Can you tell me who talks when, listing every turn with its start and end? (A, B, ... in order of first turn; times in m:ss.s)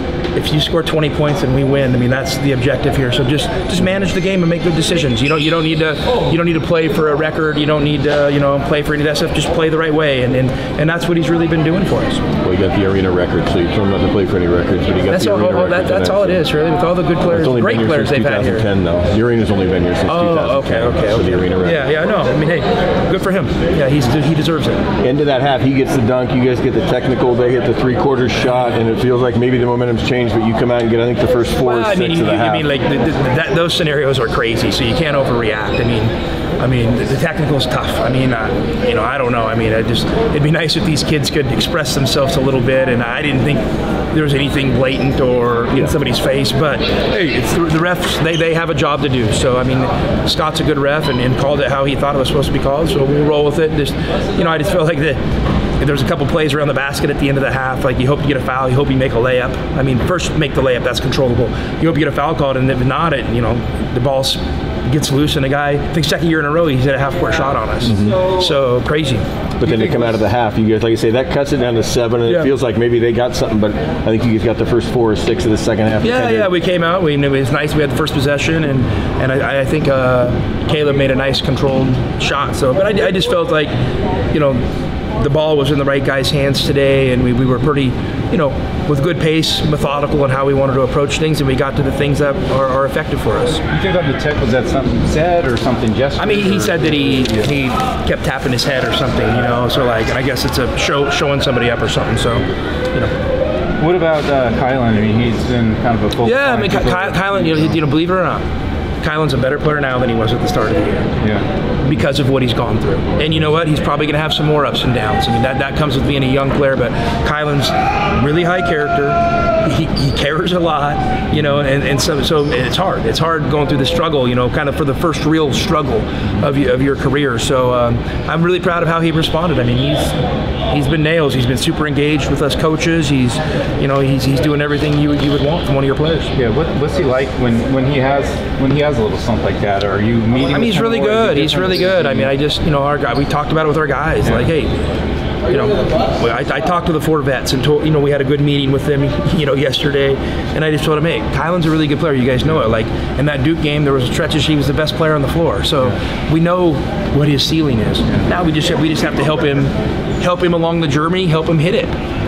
0:00.4-0:12.2 A
0:12.4-0:16.4 B
0:15.1-0:18.7 A
0:17.3-0:21.9 B
0:20.1-0:24.8 A
0:25.0-0:32.7 B
0:31.6-0:55.2 A
0:55.8-1:09.2 A
1:07.8-1:08.2 B
1:09.6-1:16.5 B
1:09.6-1:10.2 C
1:16.0-1:23.7 A
1:24.3-1:24.6 A
1:25.2-1:33.6 A
1:33.7-1:37.6 C
1:36.2-1:43.1 A
1:43.8-1:47.8 C
1:46.2-1:48.4 A
1:49.0-1:51.1 A
1:51.2-1:51.5 C
1:51.8-2:10.2 A
2:10.7-2:16.3 A
2:16.3-2:22.3 C
2:20.5-2:24.8 A
2:24.2-2:24.5 C
2:25.5-2:41.9 A